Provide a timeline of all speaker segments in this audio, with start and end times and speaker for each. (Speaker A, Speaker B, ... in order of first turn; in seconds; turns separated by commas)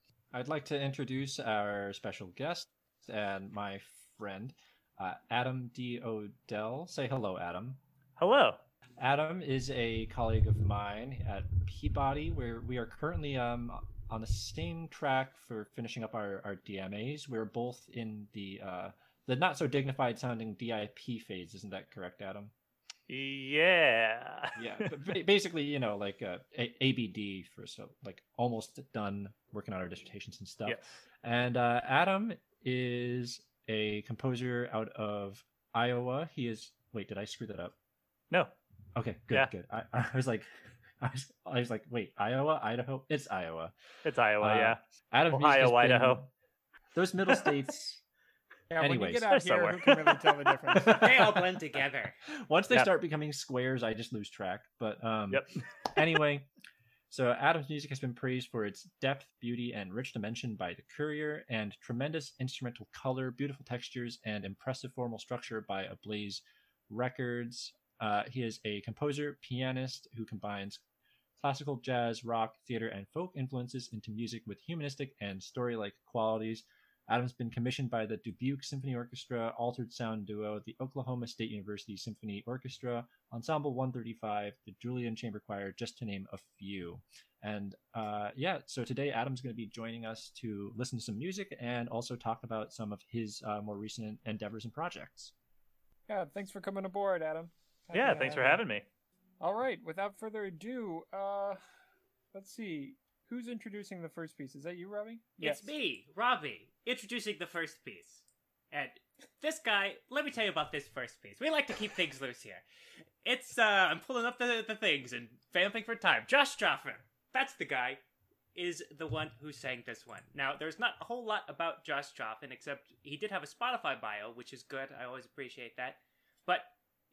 Speaker A: 0.3-7.8, Speaker B: 8.2-8.6, Speaker A: 9.0-22.5, Speaker B: 23.1-25.1, Speaker A: 24.6-37.7, Speaker B: 30.6-31.0, Speaker A: 39.0-43.7, Speaker B: 44.0-44.8, Speaker A: 44.4-46.3, Speaker B: 45.3-46.2, Speaker A: 46.9-48.0, Speaker C: 48.7-51.0, Speaker A: 48.8-49.3, Speaker B: 49.3-50.2, Speaker A: 50.9-51.6, Speaker D: 50.9-52.2, Speaker A: 52.3-56.5, Speaker A: 57.1-70.8, Speaker A: 71.4-95.3, Speaker C: 96.1-98.6, Speaker B: 97.9-98.8, Speaker C: 99.4-101.6, Speaker C: 102.3-105.7, Speaker D: 105.4-112.6, Speaker D: 113.2-118.0, Speaker D: 118.5-126.7